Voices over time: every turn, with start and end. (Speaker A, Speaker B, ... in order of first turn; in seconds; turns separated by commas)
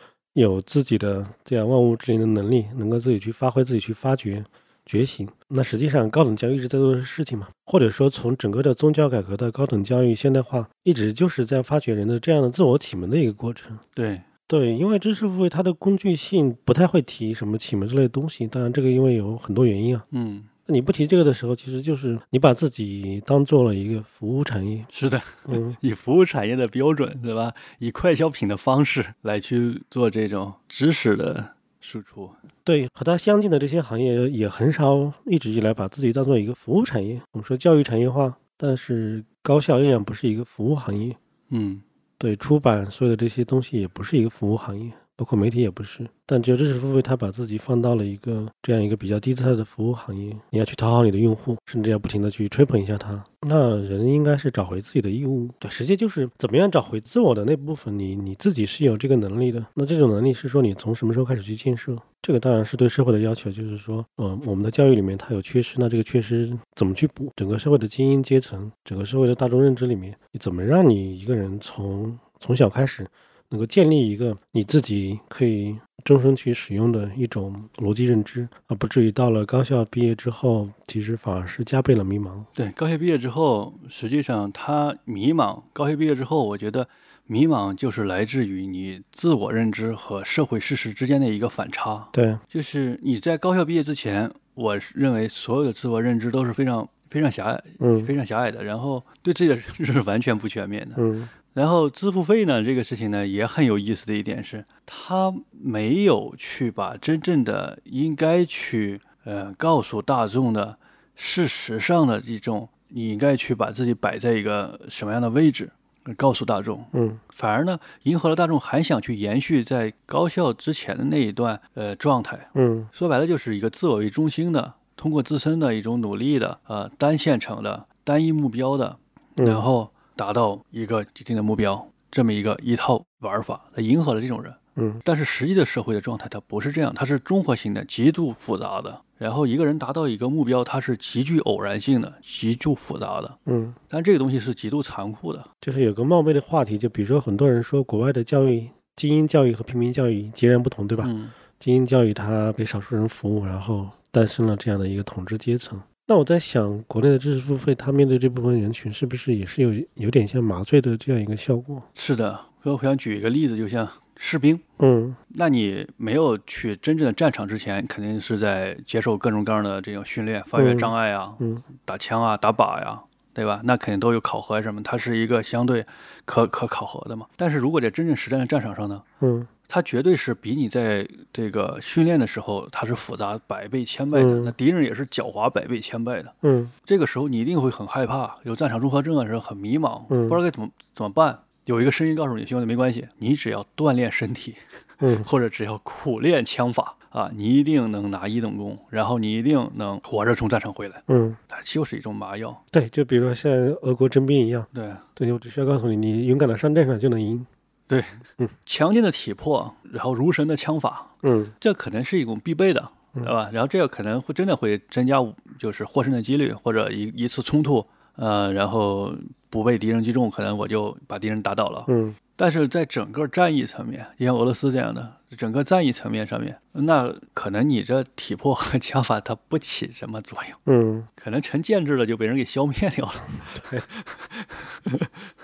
Speaker A: 0.3-13.8, Speaker B: 14.0-14.2, Speaker A: 14.5-20.1, Speaker B: 20.1-20.5, Speaker A: 20.7-24.9, Speaker B: 24.9-32.4, Speaker A: 25.5-25.8, Speaker A: 32.6-41.2, Speaker B: 41.5-41.8, Speaker A: 42.2-82.5, Speaker B: 82.5-143.4, Speaker A: 92.1-92.4, Speaker A: 97.8-98.1, Speaker A: 101.0-101.3, Speaker A: 116.9-117.2, Speaker A: 122.5-122.9, Speaker A: 129.4-129.6, Speaker A: 134.8-135.0, Speaker A: 143.5-143.8, Speaker B: 143.9-145.5, Speaker A: 145.6-161.9, Speaker B: 151.0-151.4, Speaker B: 161.9-164.6, Speaker A: 164.8-165.2, Speaker B: 165.3-179.0, Speaker A: 170.6-171.6, Speaker A: 179.2-179.5, Speaker B: 179.7-186.3, Speaker A: 184.1-184.5, Speaker A: 186.4-186.7, Speaker B: 186.9-194.6, Speaker A: 190.1-190.4, Speaker A: 195.0-195.3, Speaker B: 195.2-202.6, Speaker A: 201.1-201.4, Speaker A: 202.7-207.5, Speaker B: 204.7-205.1, Speaker B: 207.9-230.6, Speaker A: 211.2-211.5, Speaker A: 221.9-222.2, Speaker A: 230.7-231.1, Speaker B: 231.2-235.3, Speaker A: 233.6-233.8